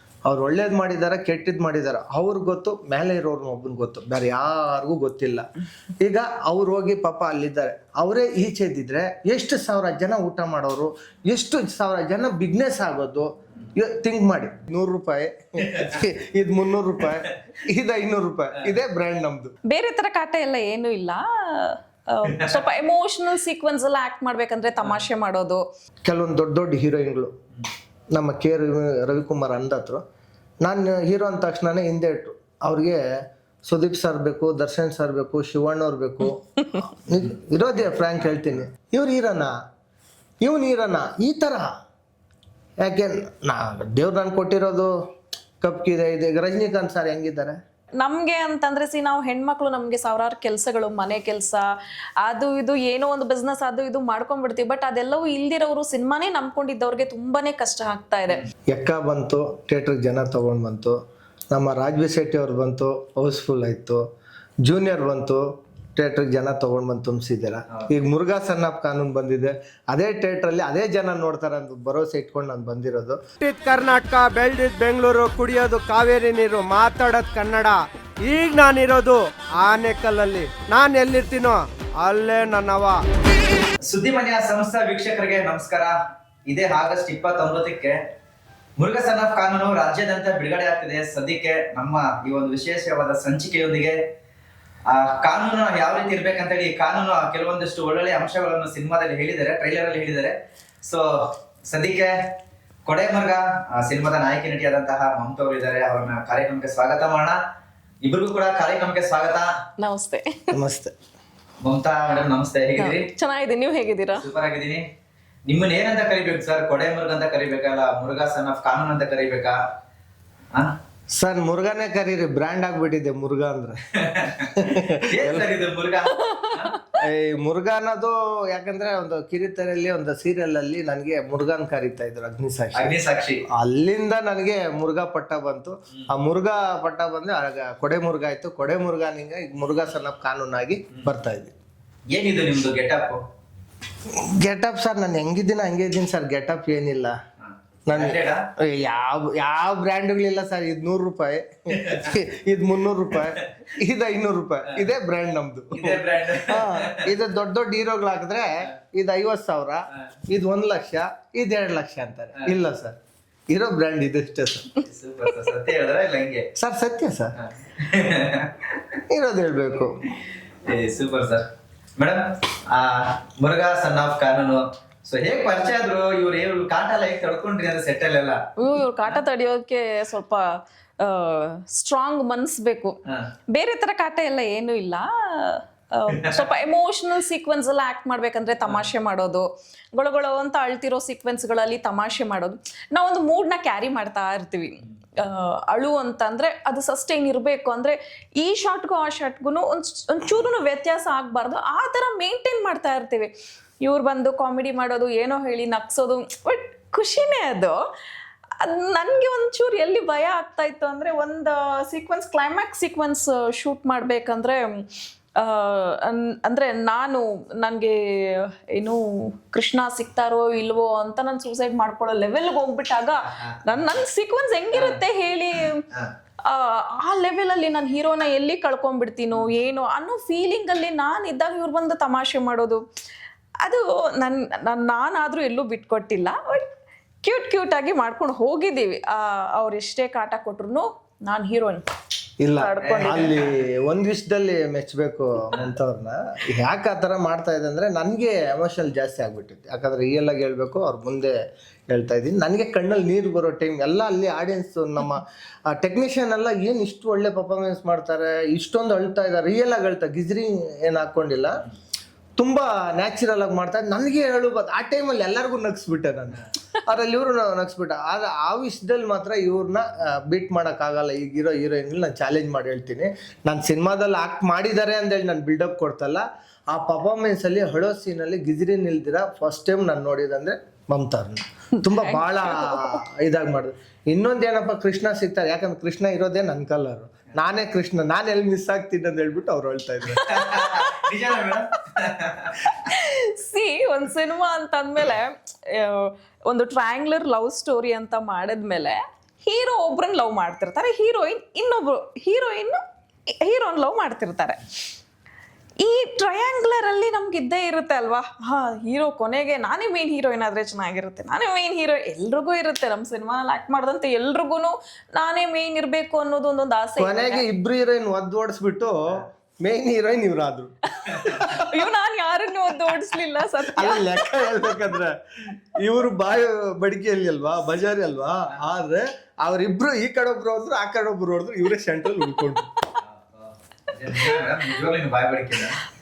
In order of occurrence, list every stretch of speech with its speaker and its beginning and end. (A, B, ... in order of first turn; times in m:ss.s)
0:00.2-0:05.4 A
0:06.0-0:19.5 A
0:19.7-0:25.6 B
0:26.0-0:27.3 A
0:28.1-0:30.0 A
0:30.6-0:33.0 A
0:33.6-0:39.5 A
0:40.4-0:41.7 A
0:42.8-0:44.9 A
0:45.6-0:47.6 A
0:48.0-0:51.6 B
0:52.2-0:58.4 B
0:58.7-1:01.0 A
1:01.5-1:04.0 A
1:04.6-1:05.4 A
1:06.0-1:13.4 A
1:13.4-1:23.0 C
1:23.8-1:25.9 D
1:26.5-1:28.0 D
1:28.8-1:34.0 D
1:34.9-1:42.1 D
1:42.8-1:47.4 D
1:48.0-1:49.5 D
1:49.8-1:50.5 B
1:50.5-1:50.9 A
1:51.6-1:53.1 D
1:52.8-1:54.3 B
1:54.1-1:54.8 D
1:55.4-1:59.6 D
2:01.1-2:03.8 A
2:04.0-2:06.7 D
2:04.4-2:05.5 A
2:06.1-2:06.9 B
2:07.0-2:12.9 A
2:12.7-2:13.4 D
2:13.5-2:21.5 A
2:22.1-2:23.2 D
2:24.2-2:27.1 A
2:27.9-2:43.0 A
2:27.9-2:28.4 D
2:31.8-2:32.1 D
2:35.7-2:37.1 D
2:43.5-2:44.8 A
2:44.8-2:46.5 D
2:46.6-2:47.4 A
2:47.4-2:48.6 D
2:49.1-2:50.0 A
2:50.6-2:58.4 D
2:58.6-3:00.5 B
3:01.0-3:03.0 B
3:03.5-3:27.8 B
3:06.1-3:06.4 D
3:28.6-3:34.8 B
3:35.4-3:45.8 B
3:44.7-3:45.0 D
3:46.4-3:52.8 B
3:53.6-3:56.7 B
3:57.2-4:01.8 B
4:02.4-4:11.3 A
4:02.5-4:03.4 B
4:11.9-4:21.6 A
4:22.4-4:50.3 A
4:41.8-4:43.0 B
4:50.1-4:51.0 B
4:50.2-4:52.6 D
4:52.6-5:02.8 B
5:03.4-5:04.6 B
5:05.8-5:17.4 B
5:17.0-5:21.5 A
5:21.0-5:24.8 B
5:21.1-5:21.4 D
5:23.7-5:32.7 A
5:33.0-5:35.8 D
5:34.2-5:34.4 B